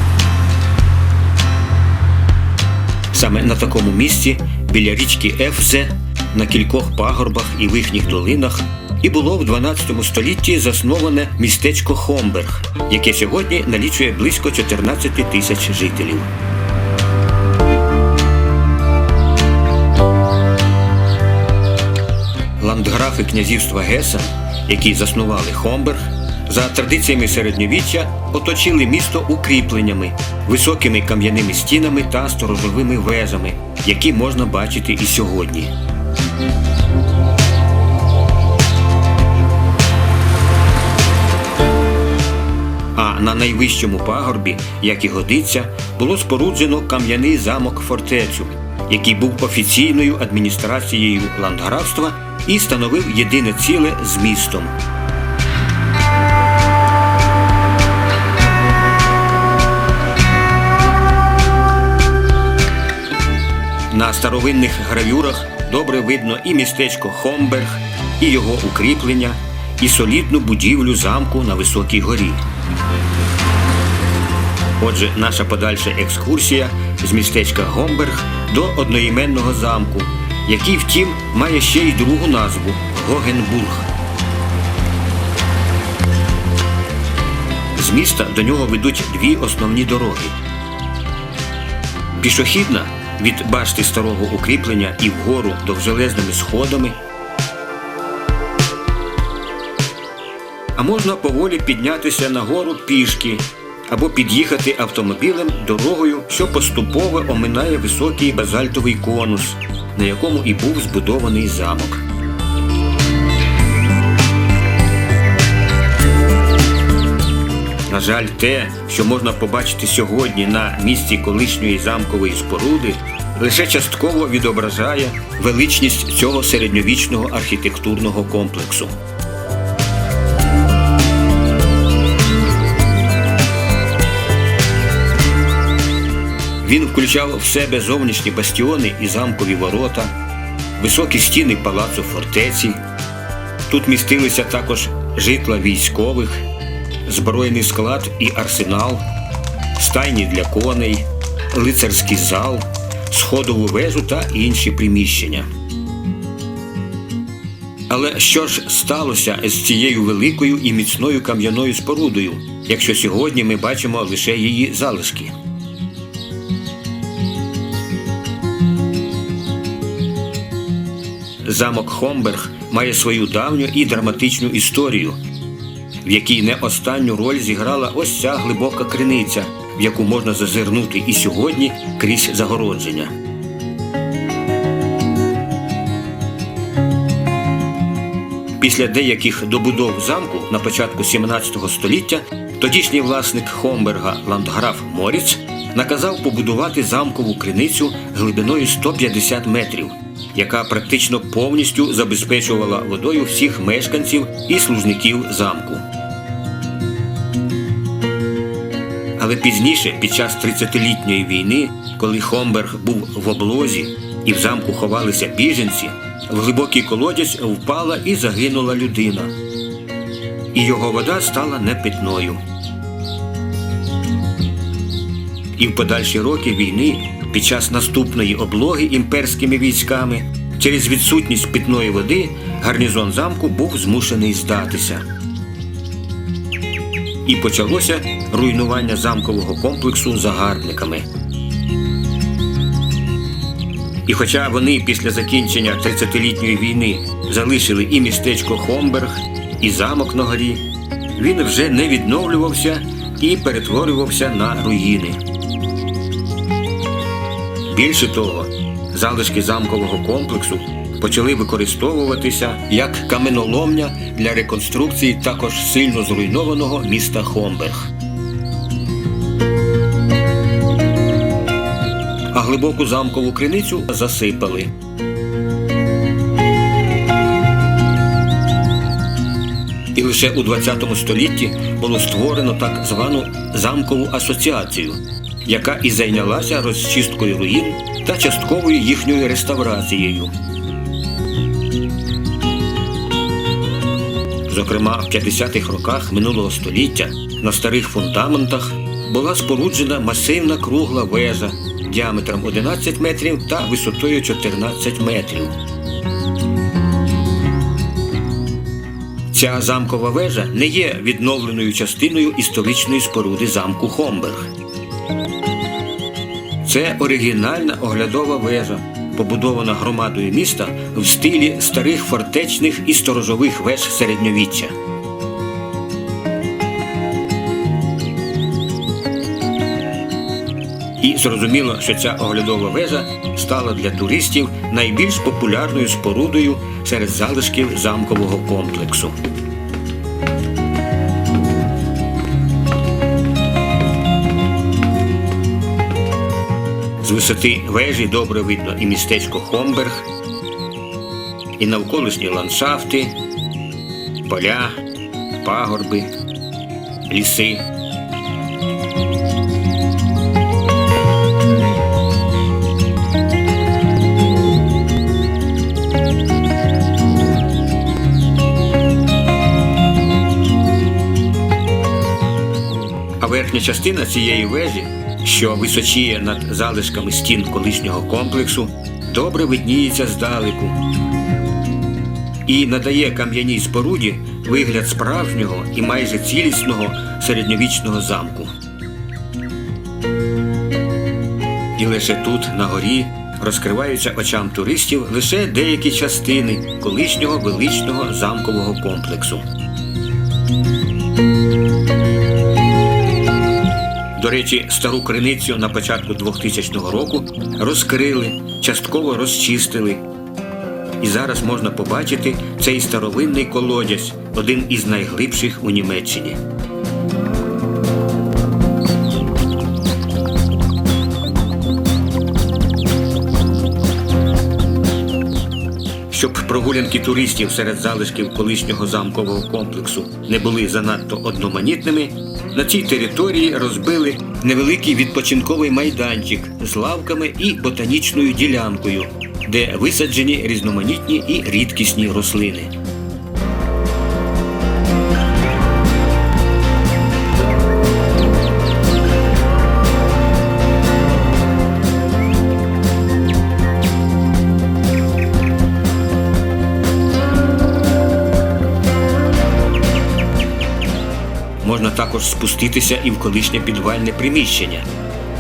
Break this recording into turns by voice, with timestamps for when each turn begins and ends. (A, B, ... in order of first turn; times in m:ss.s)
0:03.1-0:16.3 A
0:22.6-0:35.7 A
0:42.9-0:54.7 A
1:03.9-1:12.4 A
1:14.8-1:23.9 A
1:27.8-1:30.4 A
1:32.2-1:37.0 A
1:40.8-1:52.0 A
1:57.9-2:09.0 A
2:16.6-2:20.1 A
2:20.8-2:22.8 A
2:23.7-2:26.4 A
2:27.1-2:29.0 A
2:29.8-2:35.5 A
2:37.9-2:45.3 A
2:51.4-2:55.2 A
2:56.0-3:03.2 A
3:08.6-3:25.8 A
3:29.2-3:39.4 A
3:40.5-3:42.4 A
3:45.6-3:55.0 A
3:57.2-4:01.1 A
4:04.1-4:15.2 A
4:17.7-4:27.9 A
4:32.3-4:34.7 A
4:39.9-4:50.3 A
4:54.5-5:05.6 A
5:09.3-5:14.5 A
5:16.6-5:24.7 A
5:31.0-5:39.2 A
5:47.0-5:50.1 A
5:51.6-5:53.2 A
5:54.2-5:54.8 A
5:55.4-5:56.1 A
5:57.1-5:57.7 A
6:13.2-6:20.8 A
6:22.5-6:28.5 A
6:31.8-6:39.5 A
6:44.2-6:50.0 A
6:51.0-6:56.4 A
7:06.1-7:22.7 A
7:41.6-7:44.9 A